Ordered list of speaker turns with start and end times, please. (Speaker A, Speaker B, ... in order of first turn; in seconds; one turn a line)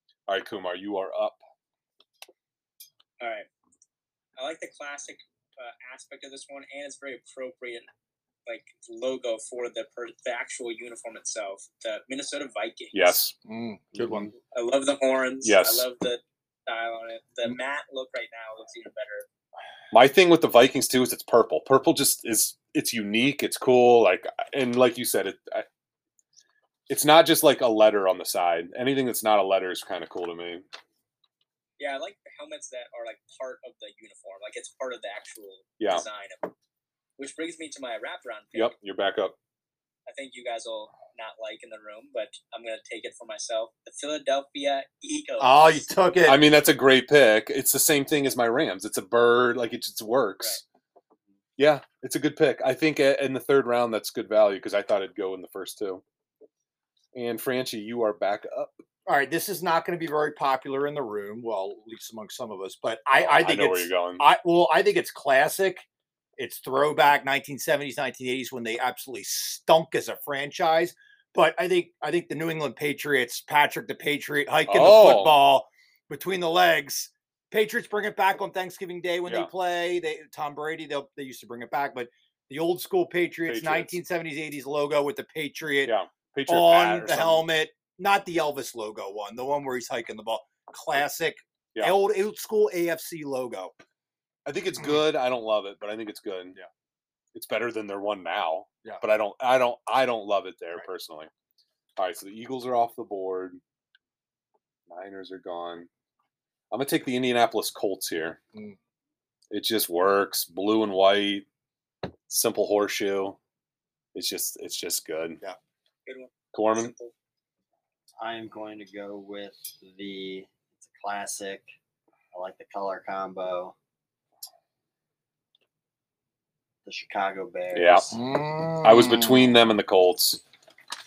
Speaker A: 0.3-1.4
Speaker B: 3.2-3.5
Speaker B: 4.4-7.9
Speaker B: 8.5-13.2
Speaker A: 12.9-13.4
Speaker C: 13.4-14.3
Speaker A: 14.0-14.3
Speaker B: 14.5-19.3
Speaker A: 15.4-15.9
Speaker A: 19.9-25.7
Speaker A: 26.9-30.6
Speaker B: 31.8-36.5
Speaker A: 35.8-36.0
Speaker B: 37.2-38.7
Speaker A: 38.5-39.4
Speaker B: 40.1-45.9
Speaker C: 45.4-46.4
Speaker A: 46.2-50.6
Speaker A: 51.6-56.0
Speaker A: 57.1-58.7
Speaker C: 59.1-65.8
Speaker A: 63.1-64.3
Speaker C: 66.4-86.0
Speaker A: 74.7-75.4
Speaker A: 83.5-84.0
Speaker A: 85.8-87.5
Speaker C: 86.5-93.7
Speaker A: 94.5-96.6
Speaker A: 97.3-101.3
Speaker A: 102.0-103.6
Speaker A: 104.9-105.9
Speaker A: 106.7-108.4
Speaker A: 109.5-111.5
Speaker A: 112.3-113.4
Speaker A: 114.2-115.4
Speaker B: 116.1-117.1
Speaker A: 116.5-116.9
Speaker D: 118.2-121.7
Speaker D: 122.3-123.8
Speaker D: 126.8-128.2
Speaker A: 127.7-128.1
Speaker C: 128.2-129.4
Speaker A: 128.8-130.4